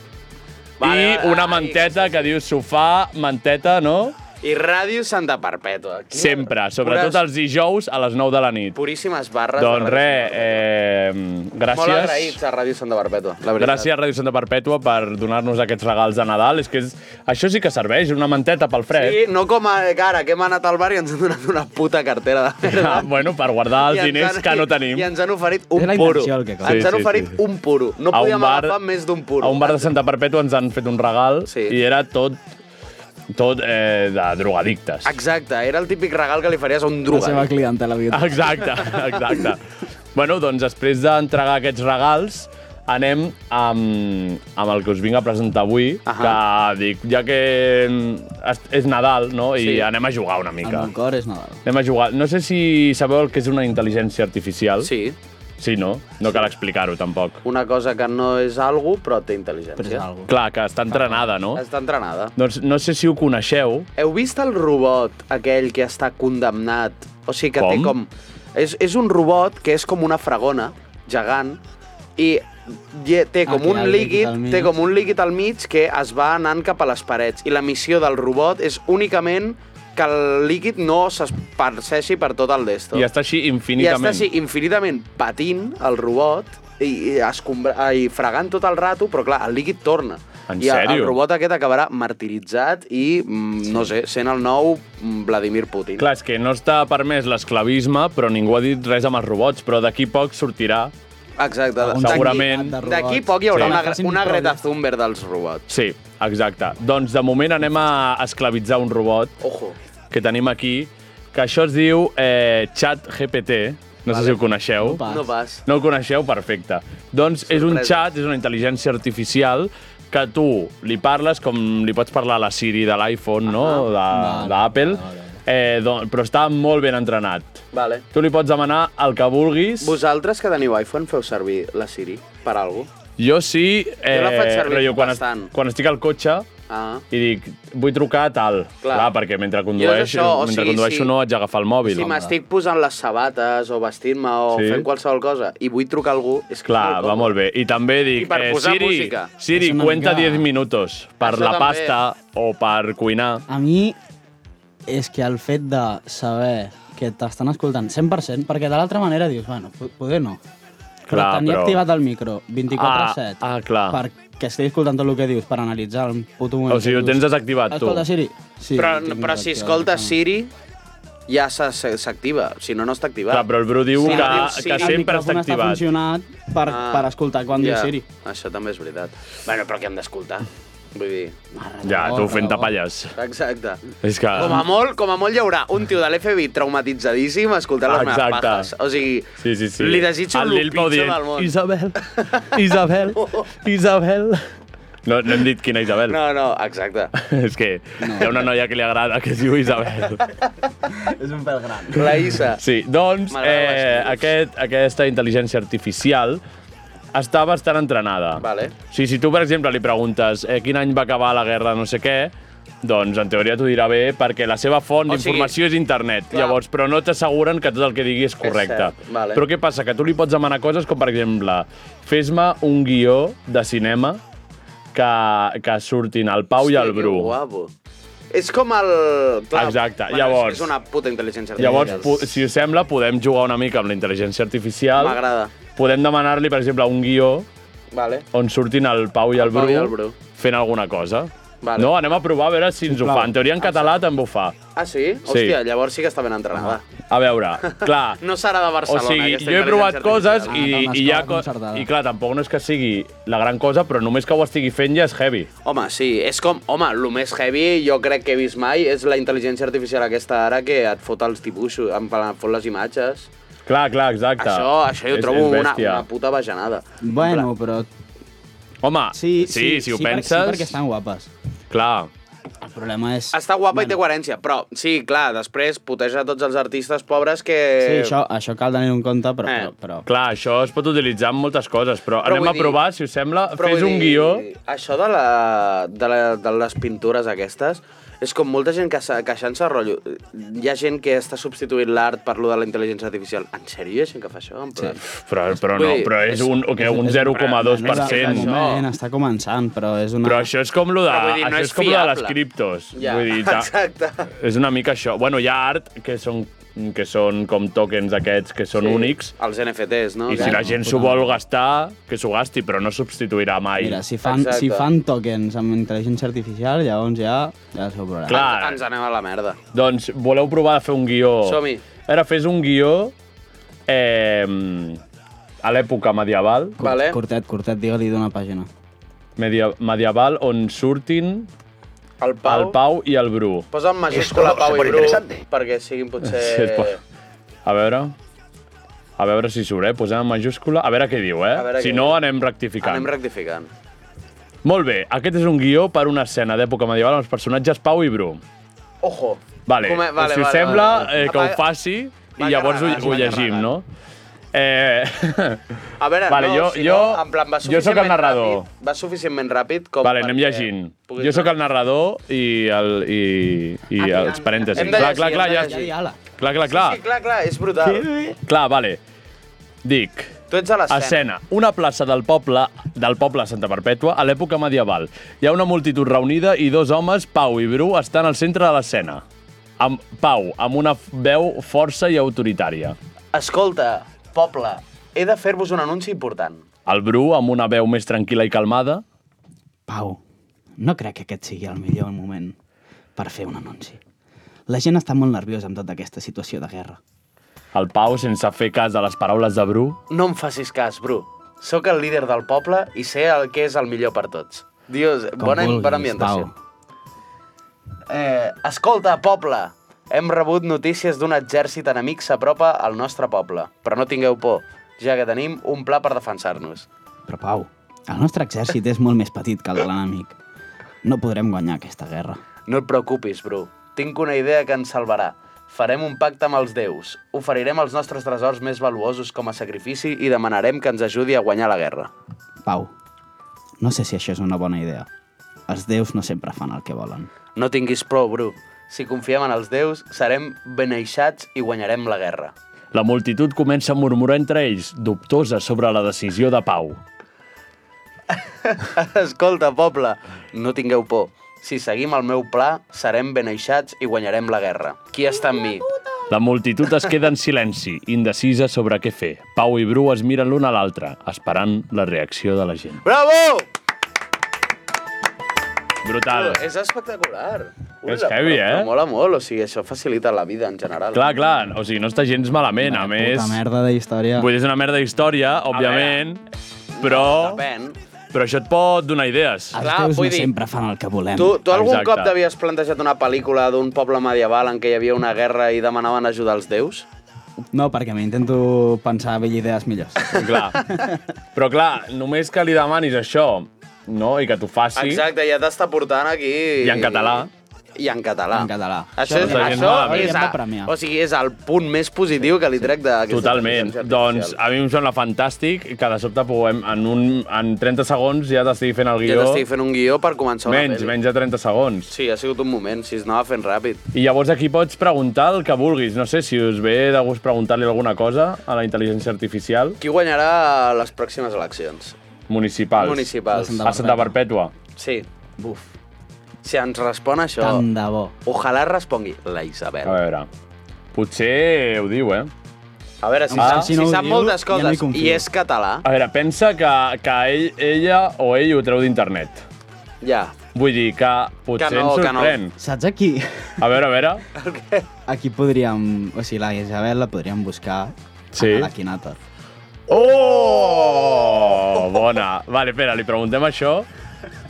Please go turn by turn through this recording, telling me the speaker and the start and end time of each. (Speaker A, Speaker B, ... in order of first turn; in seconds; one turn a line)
Speaker A: 0.8-2.3
Speaker B: 0.8-4.2
Speaker A: 4.4-7.2
Speaker B: 6.1-8.8
Speaker A: 8.7-10.6
Speaker B: 9.6-12.4
Speaker A: 11.7-13.9
Speaker B: 13.6-19.2
Speaker A: 18.9-23.1
Speaker B: 22.6-25.1
Speaker A: 23.8-29.9
Speaker C: 25.8-26.9
Speaker B: 26.6-27.3
Speaker B: 28.1-28.8
Speaker B: 29.4-32.4
Speaker A: 31.5-31.8
Speaker B: 33.3-35.2
Speaker A: 35.0-37.5
Speaker C: 37.1-38.9
Speaker B: 38.1-39.6
Speaker B: 40.1-50.9
Speaker A: 46.0-46.4
Speaker A: 49.6-49.9
Speaker C: 50.6-51.6
Speaker B: 51.6-54.9
Speaker A: 54.8-55.2
Speaker B: 55.6-57.4
Speaker A: 57.4-60.0
Speaker C: 59.8-60.3
Speaker B: 60.3-61.6
Speaker C: 60.9-61.2
Speaker A: 61.5-62.3
Speaker B: 62.4-63.9
Speaker A: 64.0-71.6
Speaker B: 67.5-67.9
Speaker A: 72.2-83.0
Speaker C: 73.5-74.7
Speaker B: 82.9-84.3
Speaker A: 83.8-96.1
Speaker B: 90.5-91.2
Speaker B: 96.0-100.9
Speaker A: 101.4-105.7
Speaker C: 101.8-104.6
Speaker B: 102.0-102.8
Speaker B: 103.5-103.8
Speaker B: 105.7-109.3
Speaker A: 109.4-109.7
Speaker B: 110.1-115.0
Speaker A: 114.1-114.4
Speaker C: 114.8-115.2
Speaker A: 115.0-115.6
Speaker B: 115.7-130.0
Speaker A: 117.5-118.0
Speaker A: 123.5-123.9
Speaker C: 124.1-125.4
Speaker A: 127.7-128.0
Speaker A: 129.8-132.9
Speaker B: 133.2-136.5
Speaker A: 134.1-135.5
Speaker A: 136.7-137.0
Speaker B: 137.1-142.3
Speaker A: 138.8-139.1
Speaker A: 139.8-141.1
Speaker A: 141.9-147.3
Speaker B: 144.5-144.9
Speaker B: 146.7-153.4
Speaker A: 148.2-149.3
Speaker C: 149.5-150.5
Speaker A: 151.2-151.9
Speaker C: 153.5-154.0
Speaker C: 154.9-160.4
Speaker B: 161.1-161.8
Speaker C: 161.1-170.1
Speaker B: 162.7-164.0
Speaker B: 166.7-168.1
Speaker A: 168.8-170.5
Speaker A: 171.3-175.0
Speaker B: 173.3-175.8
Speaker C: 174.0-178.0
Speaker A: 176.7-181.3
Speaker C: 181.5-182.7
Speaker B: 181.8-183.1
Speaker A: 183.2-183.8
Speaker B: 184.0-184.6
Speaker A: 184.3-192.6
Speaker B: 187.8-188.7
Speaker B: 189.4-194.4
Speaker A: 193.1-193.4
Speaker B: 195.0-196.2
Speaker A: 196.1-197.1
Speaker B: 197.2-200.2
Speaker C: 198.0-198.3
Speaker C: 200.9-202.1
Speaker A: 201.9-202.6
Speaker B: 202.5-206.4
Speaker A: 203.3-204.3
Speaker B: 207.1-224.2
Speaker A: 208.4-208.7
Speaker A: 215.1-215.5
Speaker A: 216.3-216.6
Speaker A: 218.4-219.4
Speaker B: 224.9-227.3
Speaker A: 226.6-227.7
Speaker A: 228.3-232.3
Speaker B: 229.5-230.7
Speaker C: 231.6-232.0
Speaker B: 231.6-235.2
Speaker A: 235.0-235.5
Speaker B: 235.7-237.5
Speaker A: 237.9-238.2
Speaker B: 238.3-244.6
Speaker A: 239.3-240.2
Speaker A: 241.6-241.9
Speaker C: 242.8-243.3
Speaker A: 243.6-244.0
Speaker A: 244.7-246.8
Speaker B: 245.2-245.6
Speaker B: 247.1-248.2
Speaker A: 247.6-250.6
Speaker B: 248.8-255.5
Speaker C: 250.5-251.9
Speaker A: 255.6-263.3
Speaker B: 263.7-266.1
Speaker A: 264.4-267.5
Speaker C: 267.0-267.9
Speaker B: 268.8-270.8
Speaker C: 269.1-271.3
Speaker B: 271.7-272.1
Speaker C: 272.6-274.0
Speaker A: 273.3-278.1
Speaker C: 277.8-280.1
Speaker A: 279.4-279.7
Speaker B: 280.1-284.4
Speaker A: 282.2-282.8
Speaker A: 283.5-295.0
Speaker B: 295.1-298.7
Speaker A: 295.6-296.6
Speaker C: 296.8-300.5
Speaker A: 297.2-298.9
Speaker B: 300.2-303.7
Speaker A: 301.1-302.4
Speaker A: 302.9-304.3
Speaker B: 304.3-309.3
Speaker A: 308.8-310.6
Speaker B: 310.3-314.0
Speaker C: 310.3-311.3
Speaker C: 313.8-318.4
Speaker A: 314.2-314.9
Speaker B: 318.3-318.8
Speaker A: 318.3-319.6
Speaker B: 319.7-323.1
Speaker A: 321.4-321.8
Speaker B: 323.9-325.0
Speaker B: 325.6-326.8
Speaker C: 326.8-328.7
Speaker A: 326.8-327.2
Speaker B: 329.4-331.5
Speaker A: 332.2-332.8
Speaker B: 332.4-333.7
Speaker A: 333.7-337.0
Speaker B: 336.2-337.0
Speaker B: 337.6-338.1
Speaker B: 339.2-343.1
Speaker A: 341.5-342.2
Speaker A: 342.8-343.7
Speaker B: 344.6-348.4
Speaker A: 349.0-351.6
Speaker B: 349.7-353.9
Speaker A: 352.4-353.7
Speaker B: 354.5-355.6
Speaker A: 356.0-361.5
Speaker B: 356.3-358.7
Speaker B: 360.0-365.8
Speaker C: 364.0-366.2
Speaker A: 364.7-365.9
Speaker B: 366.4-367.0
Speaker A: 366.7-368.1
Speaker C: 367.8-368.4
Speaker B: 368.4-369.0
Speaker B: 369.8-370.4
Speaker A: 370.5-371.2
Speaker B: 370.9-379.2
Speaker B: 379.8-382.9
Speaker A: 383.3-386.6
Speaker B: 386.9-389.0
Speaker C: 389.9-390.2
Speaker C: 390.8-392.6
Speaker C: 393.1-394.0
Speaker C: 394.7-397.0
Speaker B: 397.7-400.0
Speaker A: 400.1-406.5
Speaker C: 405.4-406.5
Speaker A: 408.1-416.9
Speaker C: 417.3-420.3
Speaker C: 421.0-422.4
Speaker A: 422.7-432.1
Speaker C: 432.6-432.9
Speaker C: 433.8-435.1
Speaker C: 435.7-437.3
Speaker A: 437.6-442.5
Speaker B: 442.9-447.0
Speaker A: 448.3-455.9
Speaker B: 456.3-463.0
Speaker A: 463.0-463.6
Speaker B: 466.0-466.6
Speaker A: 466.3-471.3
Speaker B: 468.1-468.9
Speaker B: 471.1-473.6
Speaker C: 472.8-474.5
Speaker B: 474.4-476.4
Speaker A: 475.7-476.2
Speaker A: 476.9-478.0
Speaker B: 477.0-477.6
Speaker B: 478.3-479.8
Speaker C: 479.7-481.6
Speaker A: 479.8-480.5
Speaker A: 481.4-487.1
Speaker B: 481.7-482.3
Speaker C: 487.7-491.2
Speaker A: 490.3-490.8
Speaker B: 490.3-490.8
Speaker B: 491.5-495.2
Speaker A: 494.9-504.6
Speaker B: 496.8-497.5
Speaker C: 498.5-500.9
Speaker B: 499.3-500.4
Speaker B: 503.3-509.6
Speaker A: 509.2-511.1
Speaker B: 510.7-512.1
Speaker A: 512.1-514.0
Speaker B: 514.1-520.0
Speaker A: 520.0-522.1
Speaker B: 522.5-524.7
Speaker A: 523.0-523.9
Speaker C: 523.5-524.4
Speaker A: 525.0-525.3
Speaker C: 525.6-525.9
Speaker A: 526.6-527.8
Speaker C: 527.6-528.3
Speaker A: 528.5-530.2
Speaker B: 530.0-530.5
Speaker B: 531.1-532.5
Speaker A: 533.2-536.0
Speaker C: 533.5-535.4
Speaker B: 533.5-533.9
Speaker B: 536.0-539.6
Speaker A: 540.2-540.5
Speaker B: 540.7-542.7
Speaker A: 541.8-542.6
Speaker C: 542.8-543.7
Speaker B: 543.8-544.4
Speaker A: 544.5-545.0
Speaker C: 545.3-549.4
Speaker B: 548.5-548.9
Speaker A: 550.1-551.8
Speaker B: 550.1-554.1